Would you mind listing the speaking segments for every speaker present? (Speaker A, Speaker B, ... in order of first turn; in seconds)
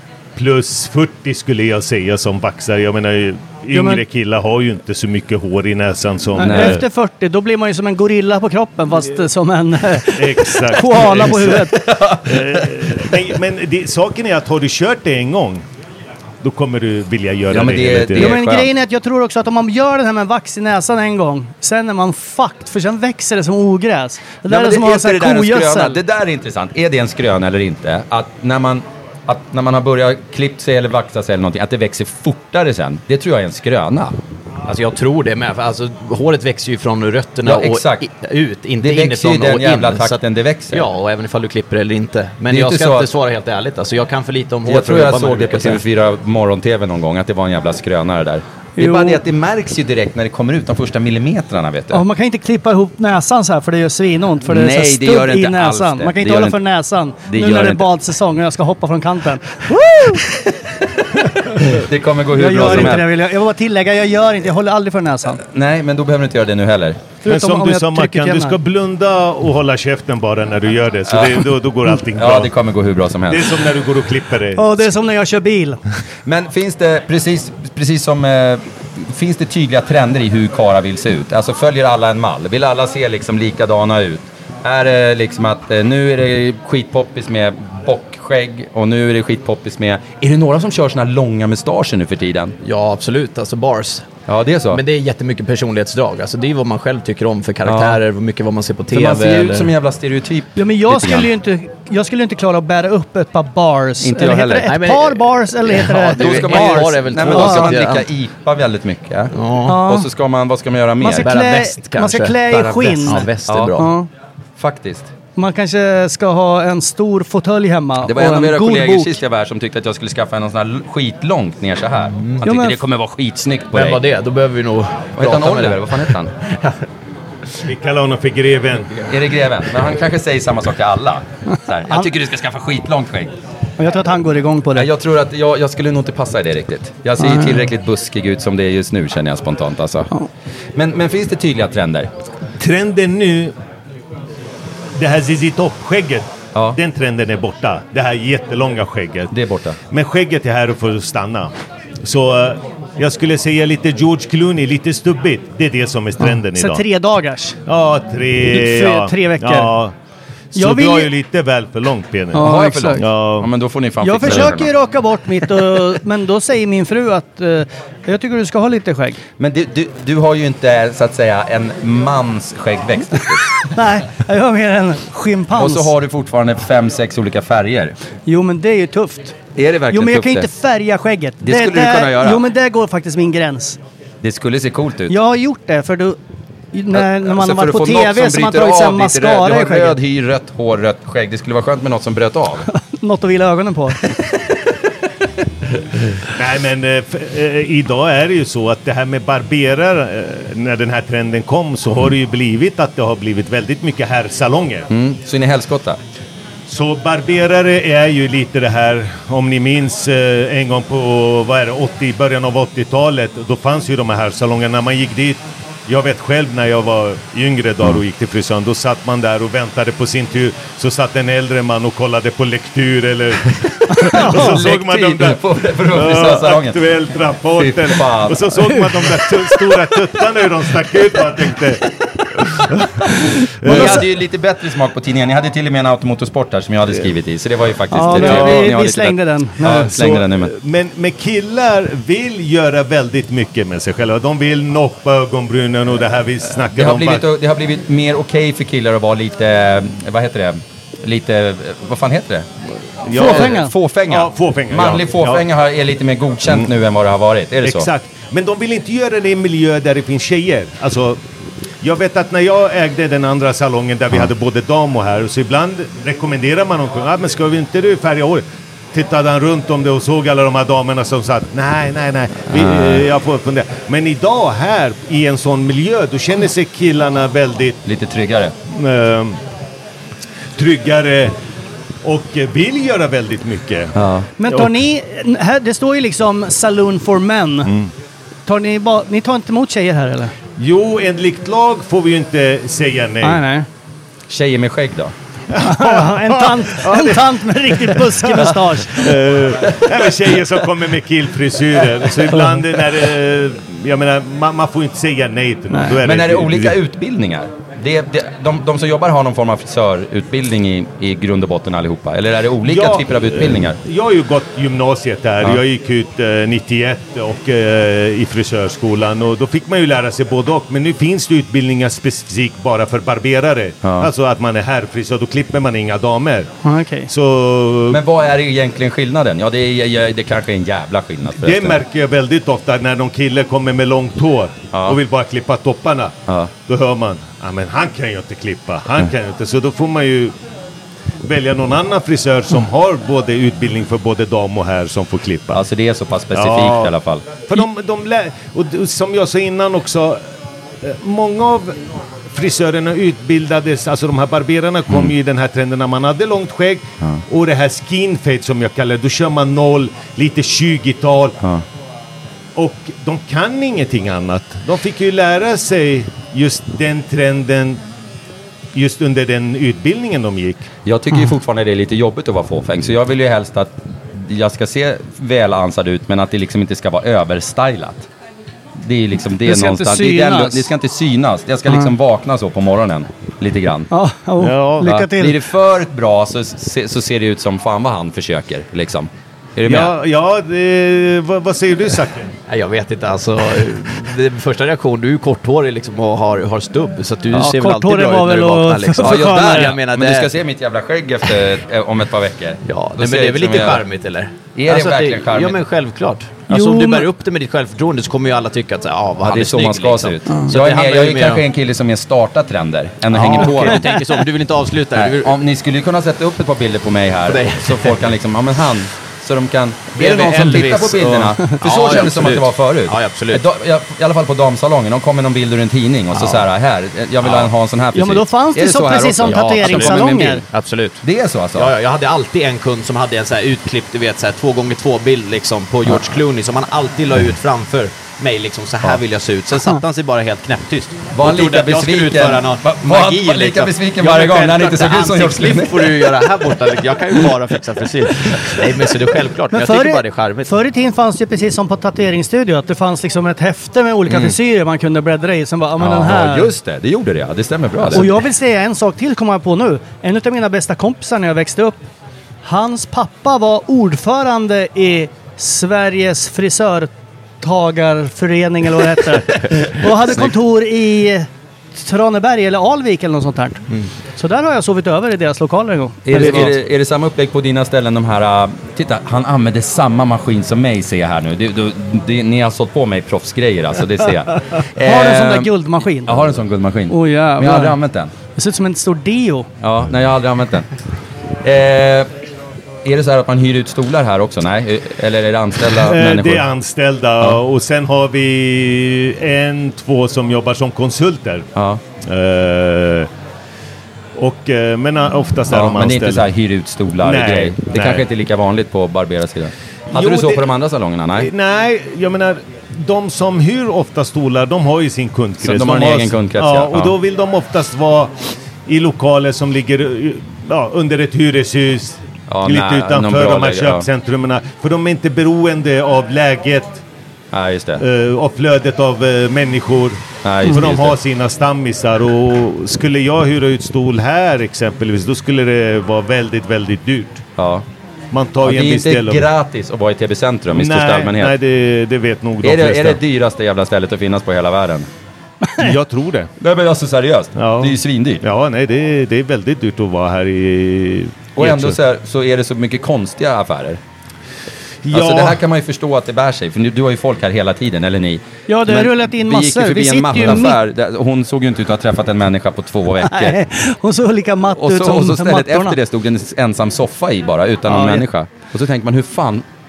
Speaker A: 0.4-6.8, 10.1-15.6, 16.4-18.3, 67.3-72.5, 73.3-74.7, 127.7-129.0, 142.6-143.5, 145.0-149.3, 149.9-151.5, 152.0-156.8, 157.7-159.9, 160.5-163.5, 196.3-204.9, 206.7-225.4, 225.9-231.9, 232.4-234.1, 238.1-238.7, 239.7-247.2, 253.1-255.4, 257.6-261.2, 261.8-277.8, 278.7-279.4, 280.6-281.4, 282.0-283.9, 287.7-287.9, 290.6-293.4, 295.5-306.8, 312.6-326.5, 327.1-328.0, 331.3-340.3, 341.2-345.6, 346.3-346.9, 347.5-350.2, 350.8-361.4, 362.6-367.8, 368.7-370.7, 384.4-384.9, 389.7-392.3, 495.7-501.5, 502.0-503.1, 504.2-506.2, 507.0-508.0, 509.9-510.5, 511.2-526.8, 527.8-537.2, 538.1-539.3, 540.5-543.0, 545.6-546.3, 547.4-551.8, 554.9-555.4
Speaker B: 3.7-4.0, 6.4-11.8, 18.2-26.0, 48.8-49.2, 51.9-60.2, 62.3-65.4, 67.2-68.6, 74.6-75.8, 100.6-107.8, 109.7-110.1, 111.0-114.1, 115.4-119.2, 122.5-122.8, 133.8-134.9, 137.2-137.6, 156.2-157.6, 158.5-159.7, 160.6-161.1, 162.3-163.1, 164.0-169.2, 173.6-175.9, 178.3-179.4, 179.9-183.8, 185.1-186.2, 186.7-190.0, 192.7-194.0, 223.9-224.6, 233.7-234.0, 237.9-239.9, 253.1-253.7, 284.4-287.7, 288.5-290.3, 293.2-293.7, 295.6-299.1, 326.6-327.1, 379.4-380.7, 383.9-385.4, 397.3-399.7, 406.5-407.1, 427.9-430.4, 449.5-456.5, 457.9-461.8, 462.4-473.6, 474.2-476.5, 484.8-486.3, 486.9-487.8, 488.4-489.5, 545.4-545.7, 558.5-560.6, 563.0-565.8, 567.7-568.0
Speaker C: 6.4-6.8, 11.1-13.1, 17.5-18.7, 24.5-34.1, 37.5-38.1, 38.8-40.9, 42.5-43.1, 44.7-52.0, 54.5-56.6, 57.3-57.9, 60.1-60.4, 61.5-63.1, 65.5-67.0, 71.1-71.5, 72.2-73.6, 76.3-92.6, 94.3-94.8, 97.7-98.0, 98.9-101.3, 104.0-104.7, 106.2-111.3, 112.5-113.8, 114.6-115.1, 118.0-124.0, 125.2-126.3, 129.1-133.3, 134.8-140.1, 140.8-142.1, 149.3-149.8, 162.4-164.7, 169.4-173.5, 175.6-177.9, 179.6-180.5, 181.4-182.5, 184.2-185.2, 186.9-192.7, 204.9-206.0, 224.1-226.8, 227.6-228.7, 233.6-240.5, 246.7-252.5, 253.1-257.9, 272.5-273.1, 277.9-278.6, 283.9-284.3, 294.3-295.1, 306.0-313.8, 323.8-324.1, 327.9-331.8, 334.7-335.0, 345.5-347.4, 370.9-378.1, 378.8-383.9, 384.8-389.9, 399.0-403.8, 404.5-405.6, 409.2-414.0, 414.9-430.4, 431.0-431.7, 441.1-446.5, 455.8-458.1, 476.1-485.5, 486.1-488.1, 489.6-490.7, 491.4-492.1, 492.8-496.5, 501.6-501.8, 505.5-511.3, 515.4-517.0, 522.3-523.9, 527.3-527.8, 530.2-531.0, 537.4-537.6, 538.4-541.4, 542.4-544.9, 546.4-548.2, 551.4-553.8, 554.9-563.4, 564.6-569.5
Speaker D: 34.7-45.8, 92.6-94.1, 94.7-99.7, 104.7-108.1, 109.3-109.8, 111.2-113.9, 123.7-125.9, 392.5-400.3, 402.7-411.4, 413.1-415.4, 417.3-418.0, 419.9-423.4, 426.1-426.5, 427.2-427.5, 429.2-431.0, 431.6-450.5, 454.1-454.3